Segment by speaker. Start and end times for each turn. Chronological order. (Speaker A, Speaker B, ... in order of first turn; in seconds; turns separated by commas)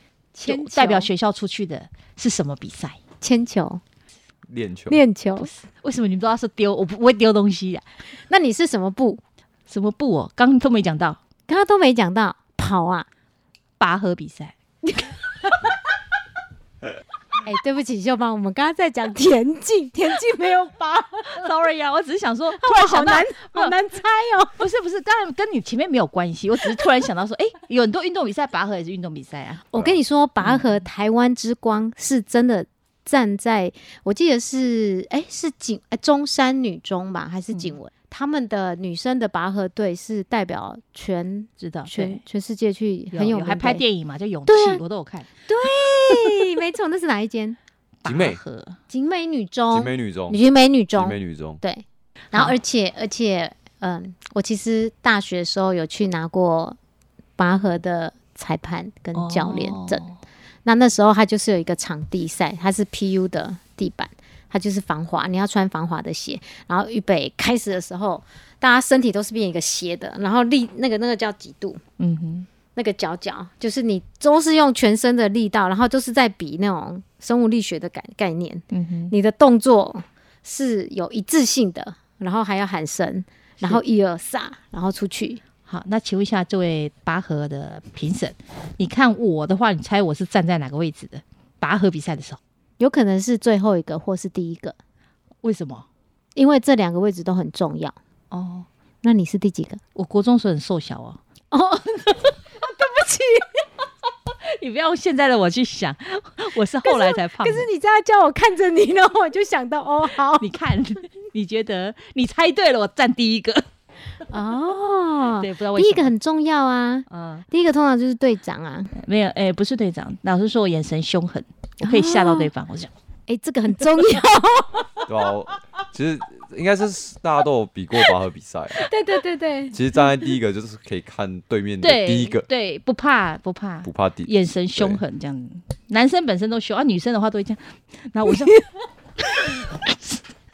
Speaker A: 0.3-1.1, Speaker B: 0.5-3.0, Speaker A: 3.2-3.8, Speaker C: 4.5-5.0, Speaker A: 4.9-5.5, Speaker B: 5.4-7.8, Speaker A: 8.3-9.2, Speaker B: 9.7-11.2, Speaker A: 11.5-13.1, Speaker B: 13.8-14.5, Speaker A: 14.8-15.5, Speaker A: 17.4-21.4, Speaker B: 21.3-23.7, Speaker A: 22.6-24.6, Speaker B: 24.6-29.6, Speaker A: 29.7-43.8, Speaker B: 30.4-30.8, Speaker B: 41.6-42.2, Speaker B: 43.1-45.3, Speaker A: 44.5-44.8, Speaker A: 45.5-47.6, Speaker B: 48.0-48.8, Speaker C: 48.0-48.4, Speaker A: 48.9-56.8, Speaker C: 49.7-50.4, Speaker C: 51.0-51.6, Speaker A: 57.4-60.0, Speaker B: 59.1-60.2, Speaker A: 60.6-71.8, Speaker B: 72.0-72.5, Speaker A: 72.8-85.4, Speaker B: 78.7-79.1, Speaker B: 85.7-92.4, Speaker A: 92.8-94.8, Speaker B: 95.4-95.8, Speaker A: 96.3-98.0, Speaker B: 98.3-98.7, Speaker A: 99.0-99.8, Speaker B: 100.0-101.2, Speaker A: 101.5-103.5, Speaker B: 104.5-107.7, Speaker A: 106.8-110.5, Speaker B: 110.4-113.7, Speaker A: 114.3-118.9, Speaker B: 115.4-116.1, Speaker B: 117.1-117.5, Speaker B: 119.0-122.9, Speaker A: 121.8-122.5, Speaker A: 123.3-124.8, Speaker C: 125.1-128.8, Speaker A: 128.8-129.8, Speaker C: 129.7-132.4, Speaker B: 131.8-138.6, Speaker C: 133.8-135.0, Speaker B: 139.4-139.9